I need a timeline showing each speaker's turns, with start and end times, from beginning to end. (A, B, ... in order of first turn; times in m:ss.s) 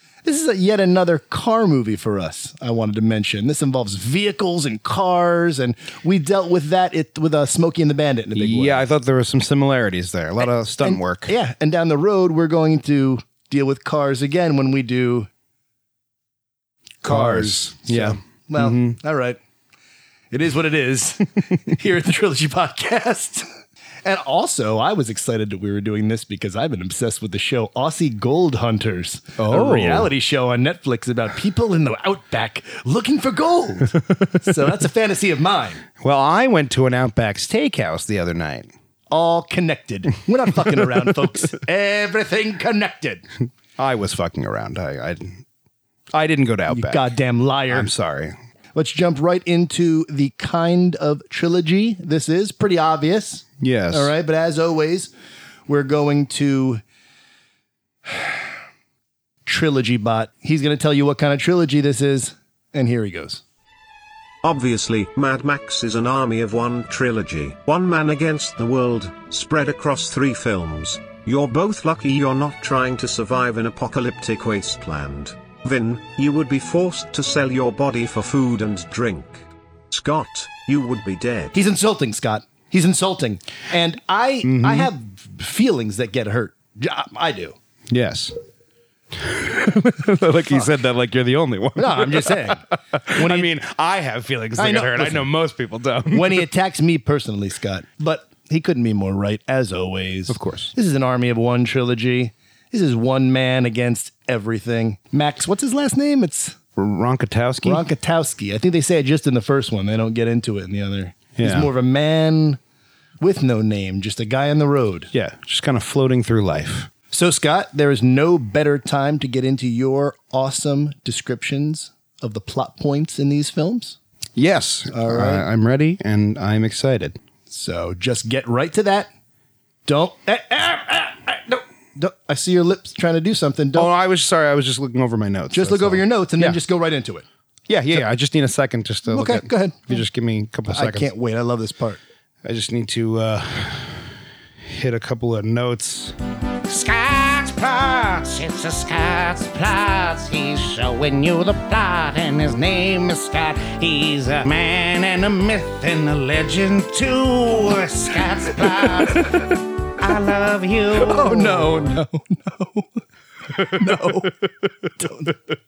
0:00.2-0:08.8 A
0:08.4-0:11.3 B
0:10.4-0:15.3 A
0:17.0-0:19.0 B
0:17.0-0:19.4 A
0:20.3-0:23.5 A
0:24.0-0:35.8 A
0:29.4-0:30.1 B
0:36.0-0:38.7 B
0:39.1-0:43.2 A
0:43.8-0:45.4 B
0:46.1-0:47.0 B
0:46.7-0:47.9 A
0:47.7-0:48.4 B
0:48.8-0:55.1 A
0:53.6-0:54.1 B
0:55.7-0:56.8 A
0:58.1-0:58.4 A
0:59.4-1:03.4 A
1:04.4-1:21.5 C
1:21.5-1:27.6 A
1:24.4-1:24.9 B
1:27.9-1:28.3 B
1:29.2-1:36.5 B
1:31.8-1:33.5 A
1:34.6-1:35.2 A
1:36.1-1:46.6 A
1:40.3-1:40.7 B
1:46.8-1:47.9 B
1:47.6-1:52.6 A
1:51.4-1:51.7 B
1:53.2-1:55.1 A
1:55.1-1:56.9 B
1:57.1-2:04.0 A
2:04.4-2:07.2 B
2:04.9-2:05.5 A
2:07.5-2:09.1 A
2:09.9-2:13.9 A
2:13.7-2:16.6 B
2:15.5-2:17.2 A
2:17.7-2:21.1 B
2:19.1-2:20.0 A
2:20.7-2:22.0 A
2:22.4-2:24.1 B
2:24.6-2:41.8 B
2:39.2-2:39.5 A
2:41.0-2:43.0 A
2:43.5-2:44.9 B
2:43.6-2:44.4 A
2:45.0-2:45.4 A